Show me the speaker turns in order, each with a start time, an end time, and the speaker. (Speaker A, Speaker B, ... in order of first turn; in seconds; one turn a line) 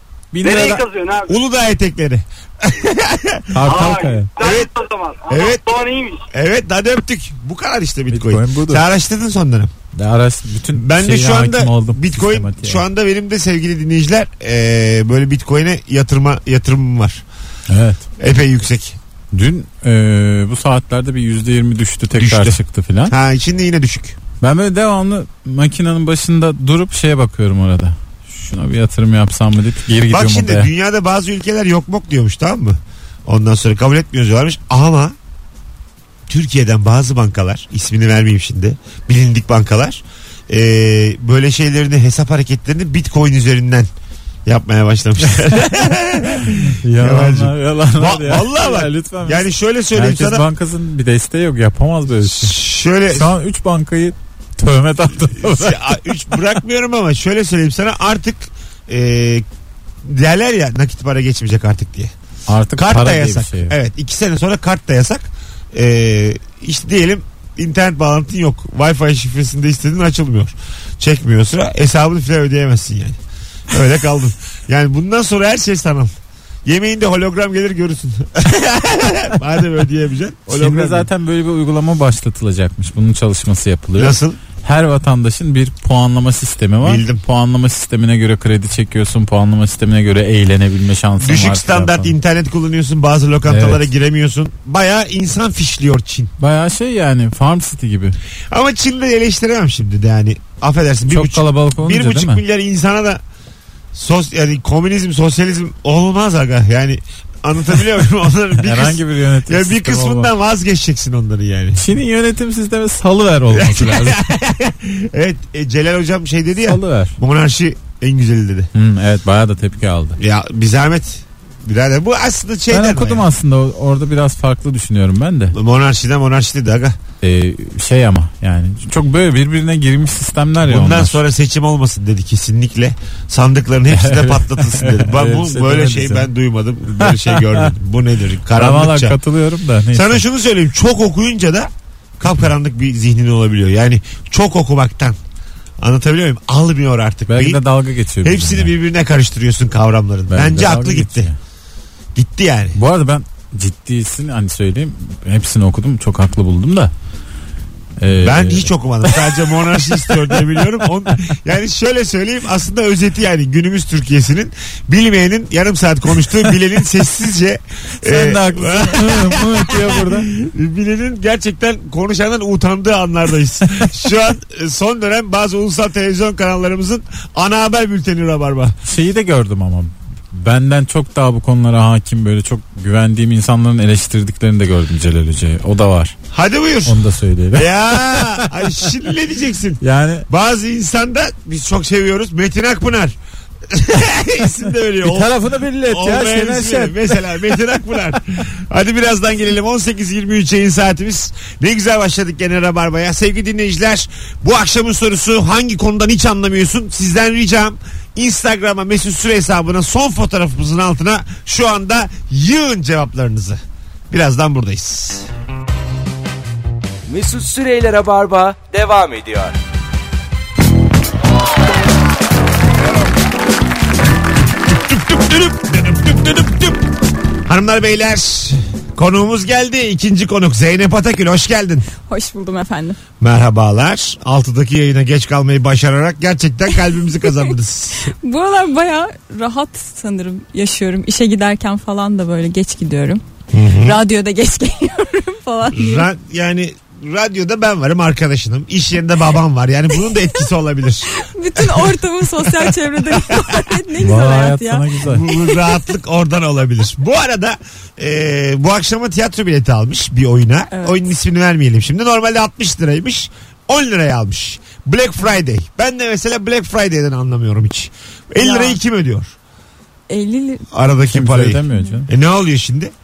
Speaker A: 0.3-0.8
Speaker B: 0.4-1.3
Speaker C: 1.3-3.5
Speaker A: 3.5-4.3
Speaker B: 3.6-6.2
Speaker C: 4.4-4.7
Speaker C: 5.3-5.6
Speaker C: 6.3-9.7
Speaker A: 8.1-8.8
Speaker A: 9.9-12.8
Speaker C: 10.7-17.2
Speaker A: 17.7-18.1
Speaker C: 18.2-19.0
Speaker A: 19.3-23.1
Speaker C: 22.1-24.2
Speaker A: 24.4-30.7
Speaker C: 30.1-35.1
Speaker C: 36.3-43.9
Speaker C: 44.5-50.4
Speaker A: 46.3-52.5
Speaker C: 52.2-53.3
Speaker A: 53.1-56.0
Speaker C: 55.3-59.4
Speaker C: 60.0-62.1
Speaker A: 62.5-63.7
Speaker C: 62.8-73.2
Speaker C: 73.7-76.1
Speaker C: 76.6-81.1
Speaker A: 80.5-92.1
Speaker C: 84.0-84.4
Speaker C: 86.8-87.2
Speaker C: 91.2-96.3
Speaker A: 93.5-93.9
Speaker A: 96.4-98.2
Speaker C: 98.5-103.2
Speaker A: 101.1-102.4
Speaker C: 103.9-111.8
Speaker A: 108.6-110.3
Speaker A: 111.8-114.2
Speaker C: 113.5-118.7
Speaker A: 116.6-117.2
Speaker A: 118.7-120.2
Speaker C: 120.2-123.3
Speaker A: 122.7-125.5
Speaker C: 125.5-127.0
Speaker A: 127.2-131.2
Speaker C: 130.6-139.2
Speaker A: 133.9-136.3
Speaker A: 137.0-137.7
Speaker A: 138.5-140.2
Speaker C: 139.9-145.2
Speaker C: 145.8-147.6
Speaker A: 147.3-148.7
Speaker C: 148.2-151.3
Speaker A: 150.3-151.3
Speaker C: 152.1-152.8
Speaker A: 152.7-156.9
Speaker A: 158.0-160.6
Speaker C: 158.2-178.7
Speaker A: 168.0-170.3
Speaker A: 178.8-186.2
Speaker C: 186.3-187.0
Speaker A: 186.8-188.9
Speaker C: 187.5-193.2
Speaker A: 189.8-190.3
Speaker C: 193.7-195.3
Speaker A: 195.0-197.3
Speaker C: 195.8-215.3
Speaker D: 217.1-219.6
Speaker C: 224.7-226.9
Speaker C: 227.4-231.9
Speaker E: 232.1-233.0
Speaker C: 233.2-238.1
Speaker E: 238.2-243.2
Speaker C: 243.5-244.0
Speaker E: 243.8-246.1
Speaker C: 245.7-253.7
Speaker E: 251.2-255.6
Speaker A: 254.0-255.2
Speaker C: 255.1-269.3
Speaker E: 260.7-261.0
Speaker E: 268.4-268.8
Speaker E: 270.1-270.6
Speaker C: 270.7-272.9
Speaker A: 271.1-272.1